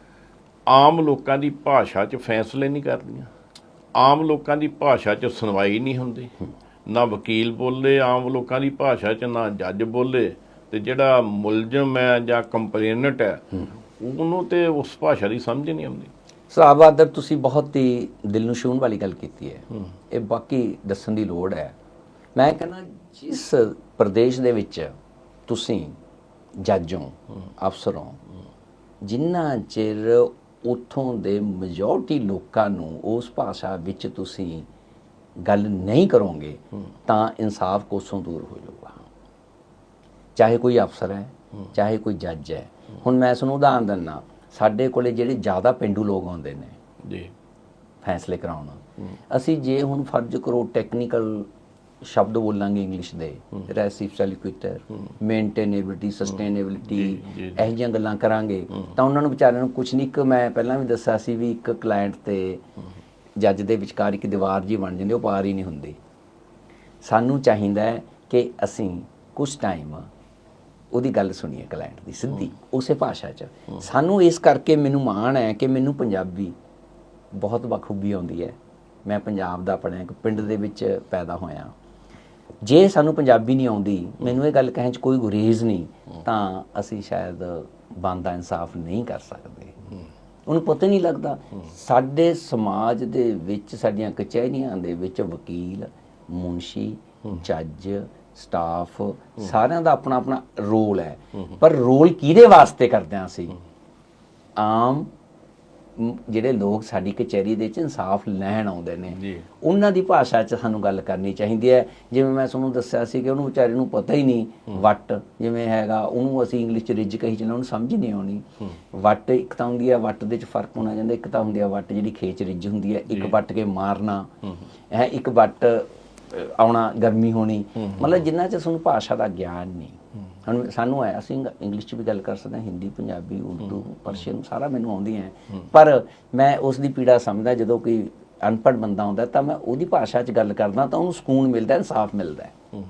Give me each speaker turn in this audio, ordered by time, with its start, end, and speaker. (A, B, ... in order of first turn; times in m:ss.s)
0:00.7-0:03.3 A
0:03.9-0:06.3 A
0:06.8-0:16.1 A
0:16.5-0:21.7 B
0:22.3-0:24.9 B
0:25.5-0:26.0 B
0:26.6-0:28.2 B
0:29.0-0:34.7 B
0:35.4-0:39.0 B
0:40.3-0:46.8 B
0:47.0-0:47.3 A
0:48.0-0:51.5 B
0:52.0-1:02.6 B
0:56.9-0:57.6 A
1:03.4-1:06.0 B
1:07.0-1:10.0 B
1:10.9-1:16.5 B
1:17.3-1:21.7 B
1:22.6-1:29.8 B
1:30.4-1:43.6 B
1:44.6-1:45.1 B
1:46.0-2:04.3 B
1:49.2-1:49.4 A
2:04.9-2:22.5 B